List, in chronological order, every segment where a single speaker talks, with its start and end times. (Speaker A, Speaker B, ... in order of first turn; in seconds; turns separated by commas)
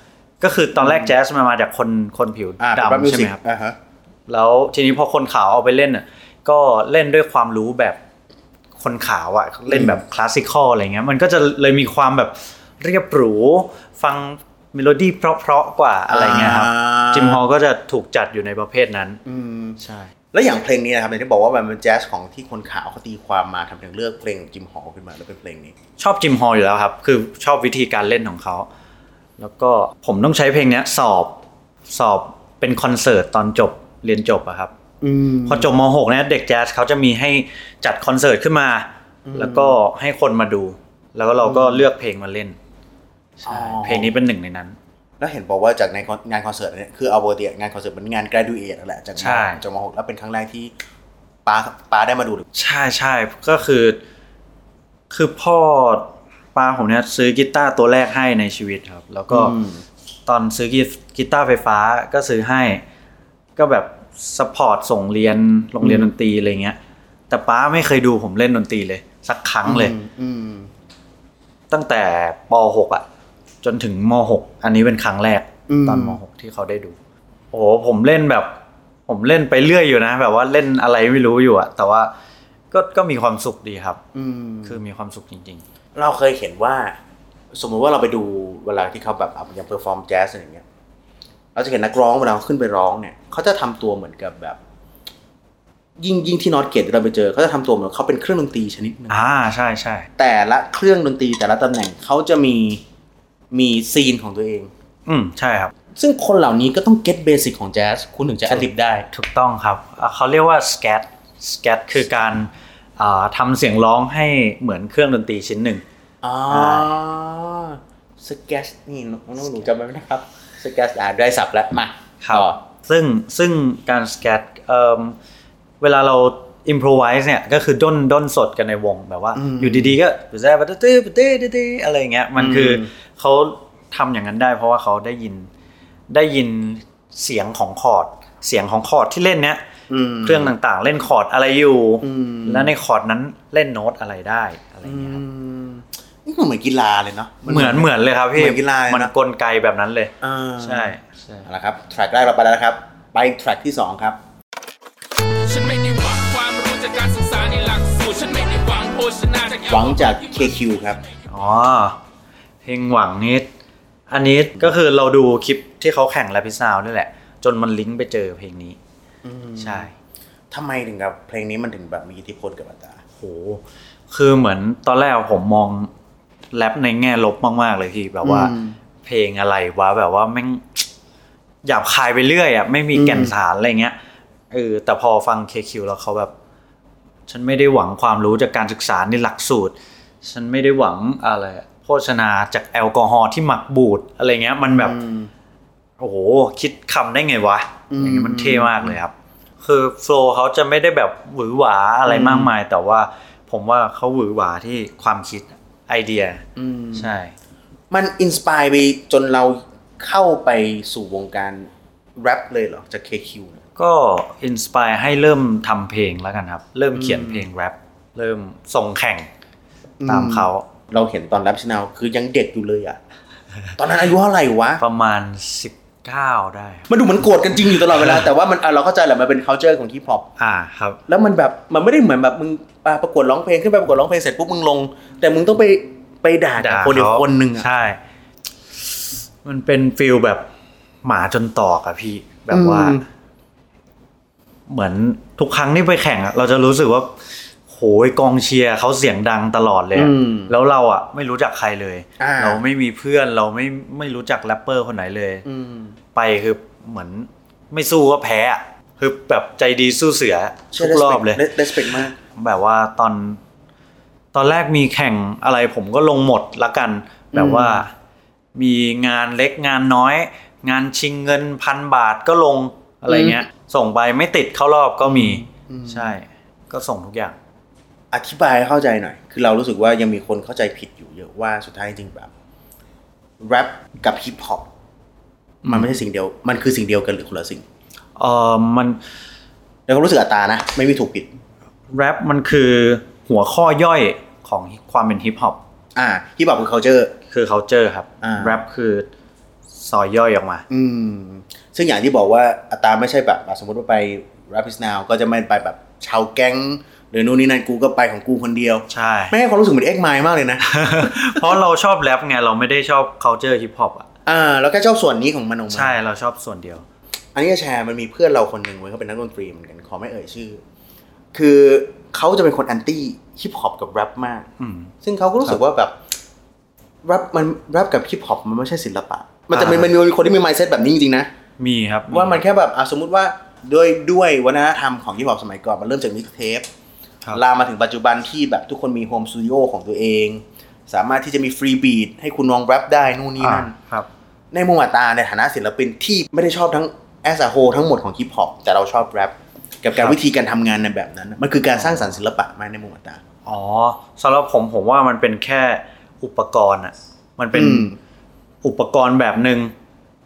Speaker A: 0.4-3.4, Speaker B: 0.8-1.1, Speaker B: 2.6-3.8, Speaker A: 4.3-8.0, Speaker A: 8.8-19.2, Speaker B: 9.7-10.0, Speaker B: 16.1-17.4, Speaker B: 19.3-19.8, Speaker A: 19.8-20.1, Speaker B: 20.3-25.8, Speaker A: 26.0-28.7, Speaker A: 29.4-34.7, Speaker B: 35.0-35.7, Speaker A: 35.5-42.6, Speaker B: 39.3-39.8, Speaker B: 41.4-41.9, Speaker B: 43.4-44.2, Speaker A: 43.5-44.8, Speaker B: 45.2-50.7, Speaker A: 49.2-49.6, Speaker B: 51.5-52.4, Speaker A: 52.5-54.0, Speaker A: 55.1-59.5, Speaker B: 59.3-59.8, Speaker A: 60.3-62.8, Speaker A: 63.6-66.8, Speaker B: 65.8-66.1, Speaker A: 67.3-70.0, Speaker B: 69.7-70.7, Speaker A: 71.7-73.0, Speaker A: 73.6-77.0, Speaker B: 75.7-76.2, Speaker A: 77.5-78.5, Speaker A: 79.1-82.1, Speaker A: 82.7-84.0, Speaker B: 84.1-84.8, Speaker A: 84.7-85.6, Speaker B: 86.0-87.0, Speaker B: 87.5-90.7, Speaker B: 91.5-94.6, Speaker B: 96.0-99.2, Speaker A: 99.1-100.1, Speaker B: 100.2-102.8, Speaker B: 103.5-104.7, Speaker A: 105.1-105.7, Speaker B: 105.9-109.1, Speaker A: 109.1-115.8, Speaker B: 116.2-122.6, Speaker A: 116.5-116.9, Speaker A: 122.2-125.2, Speaker A: 125.8-135.5, Speaker B: 129.3-129.9, Speaker B: 132.4-132.9, Speaker A: 136.1-139.6, Speaker B: 139.9-140.5, Speaker A: 140.2-145.2, Speaker B: 142.0-142.7, Speaker B: 144.8-149.1, Speaker A: 147.5-151.5, Speaker B: 150.2-150.9, Speaker B: 151.4-154.2, Speaker C: 155.4-160.5, Speaker B: 159.7-161.0, Speaker A: 161.3-162.0, Speaker A: 162.6-163.5, Speaker A: 164.1-168.8, Speaker B: 169.2-169.9, Speaker A: 169.6-169.9, Speaker B: 170.5-173.0, Speaker A: 173.2-175.9, Speaker A: 176.5-180.9, Speaker B: 178.2-178.8, Speaker A: 181.6-184.0, Speaker B: 182.9-183.3, Speaker A: 184.5-186.3, Speaker A: 187.3-195.0, Speaker B: 194.8-195.3, Speaker A: 196.0-206.4, Speaker B: 197.9-199.0, Speaker B: 202.1-202.5, Speaker B: 206.6-207.1, Speaker A: 206.9-207.3, Speaker B: 207.9-213.6, Speaker A: 213.8-219.3, Speaker B: 216.9-217.5, Speaker B: 220.0-223.0, Speaker A: 220.1-220.7, Speaker B: 223.8-224.8, Speaker A: 224.8-226.9, Speaker B: 226.9-230.3, Speaker A: 227.9-228.2, Speaker A: 230.4-231.0, Speaker B: 231.1-237.7, Speaker A: 236.6-238.0, Speaker A: 239.4-240.5, Speaker A: 241.0-243.0, Speaker B: 242.5-243.0, Speaker A: 244.7-247.2, Speaker A: 247.7-255.4, Speaker B: 249.9-250.5, Speaker B: 252.2-252.6, Speaker B: 255.4-255.9, Speaker A: 256.1-261.4, Speaker B: 260.7-262.2, Speaker A: 262.4-263.4, Speaker A: 264.3-267.9, Speaker B: 267.3-267.9, Speaker A: 268.6-277.4, Speaker B: 273.1-273.4, Speaker B: 275.0-276.1, Speaker B: 278.1-282.3, Speaker B: 283.4-284.7, Speaker A: 285.6-285.9, Speaker B: 285.6-287.6, Speaker A: 288.2-289.0, Speaker B: 289.9-291.3, Speaker A: 291.9-295.6, Speaker B: 295.9-297.1, Speaker A: 297.3-299.1, Speaker B: 298.2-298.6, Speaker A: 299.8-300.6, Speaker B: 300.7-311.6, Speaker A: 308.9-309.3, Speaker A: 310.6-314.1, Speaker B: 314.3-315.9, Speaker A: 315.7-316.8, Speaker B: 317.4-320.6, Speaker B: 321.3-324.5, Speaker A: 324.6-325.6, Speaker B: 325.0-326.0, Speaker B: 327.0-331.3, Speaker A: 329.5-329.9, Speaker A: 331.6-332.4, Speaker B: 332.1-336.7, Speaker B: 337.3-343.7, Speaker A: 343.4-344.1, Speaker B: 344.5-353.2, Speaker A: 349.9-350.2, Speaker A: 351.8-352.1, Speaker A: 353.5-357.9, Speaker B: 357.5-358.0, Speaker A: 358.6-359.7